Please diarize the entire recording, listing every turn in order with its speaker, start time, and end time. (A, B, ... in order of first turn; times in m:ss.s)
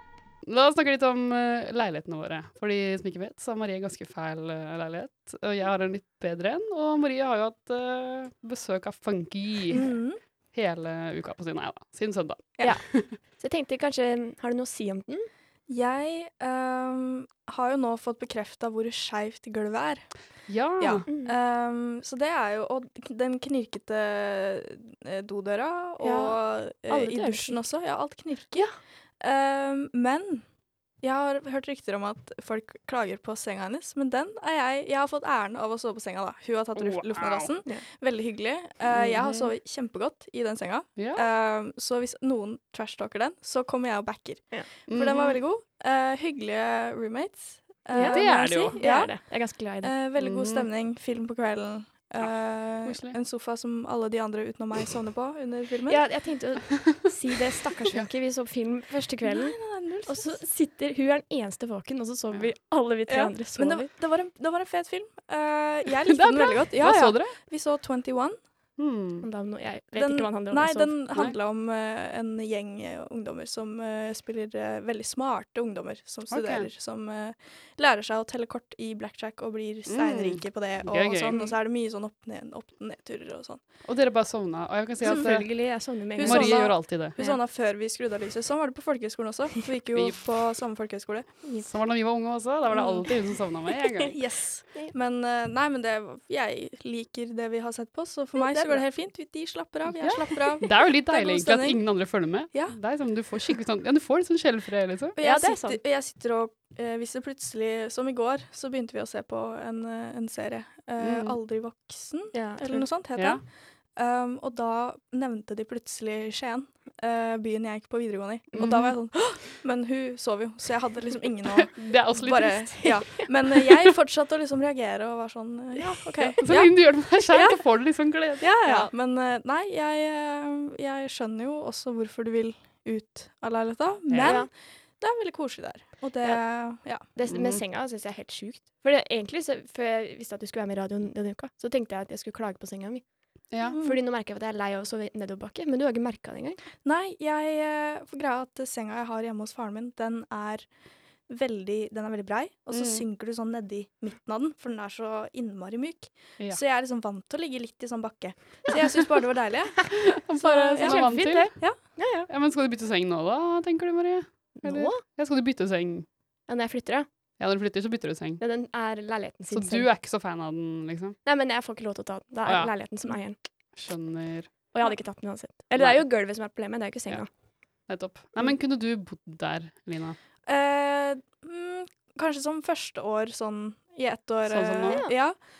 0:00.4-0:09.9 A
0:09.7-0:10.2 B
0:10.5-0:13.1 A
0:13.4-0:15.3 C
0:15.7-0:20.1 B
0:20.5-0:21.1 A
0:20.8-0:30.4 B
0:21.1-0:21.3 C
0:26.0-0:27.6 C
0:31.0-0:49.2 B
0:36.8-0:37.5 A
0:38.9-0:39.5 A
0:41.0-0:41.2 A
0:44.9-0:45.4 A
0:47.9-0:49.9 C
0:48.0-0:48.8 A
0:49.8-0:56.0 B
0:50.2-0:50.7 A
0:52.2-0:53.2 A
0:55.9-1:03.9 C
0:59.2-1:00.4 B
1:03.1-1:08.4 B
1:06.1-1:07.4 A
1:08.8-1:09.3 A
1:09.2-1:11.0 C
1:10.0-1:23.6 B
1:16.3-1:16.7 A
1:19.9-1:21.6 A
1:23.8-1:25.5 A
1:25.0-1:27.4 C
1:26.2-1:31.3 B
1:26.2-1:27.2 A
1:29.9-1:30.2 A
1:31.6-1:34.2 A
1:32.7-1:33.1 B
1:34.1-1:42.8 B
1:38.4-1:38.8 C
1:40.0-1:45.2 A
1:45.2-2:07.6 B
1:45.2-1:45.8 C
1:51.0-1:51.4 A
1:52.3-1:52.9 C
1:53.2-1:53.4 A
1:58.6-1:58.9 A
2:01.5-2:03.0 A
2:02.8-2:03.3 C
2:05.8-2:06.4 C
2:06.2-2:08.8 A
2:08.4-2:17.0 B
2:14.1-2:14.4 A
2:14.2-2:14.5 C
2:17.0-2:23.0 C
2:17.3-2:17.6 A
2:23.5-2:23.8 A
2:23.6-2:24.0 B
2:23.8-2:26.6 C
2:26.8-2:30.7 B
2:31.3-2:40.2 B
2:32.7-2:33.0 A
2:40.1-2:41.6 A
2:40.4-2:42.3 C
2:40.8-2:41.8 B
2:42.3-2:46.1 A
2:44.6-2:45.0 C
2:46.5-2:47.1 C
2:47.4-2:48.4 A
2:48.4-2:49.9 C
2:49.5-2:51.2 A
2:51.2-2:53.4 C
2:52.4-2:52.7 A
2:53.8-2:54.5 A
2:54.7-2:57.3 C
2:55.8-2:56.1 A
2:57.9-3:00.2 A
3:00.5-3:05.4 B
3:04.5-3:05.0 A
3:04.9-3:05.1 C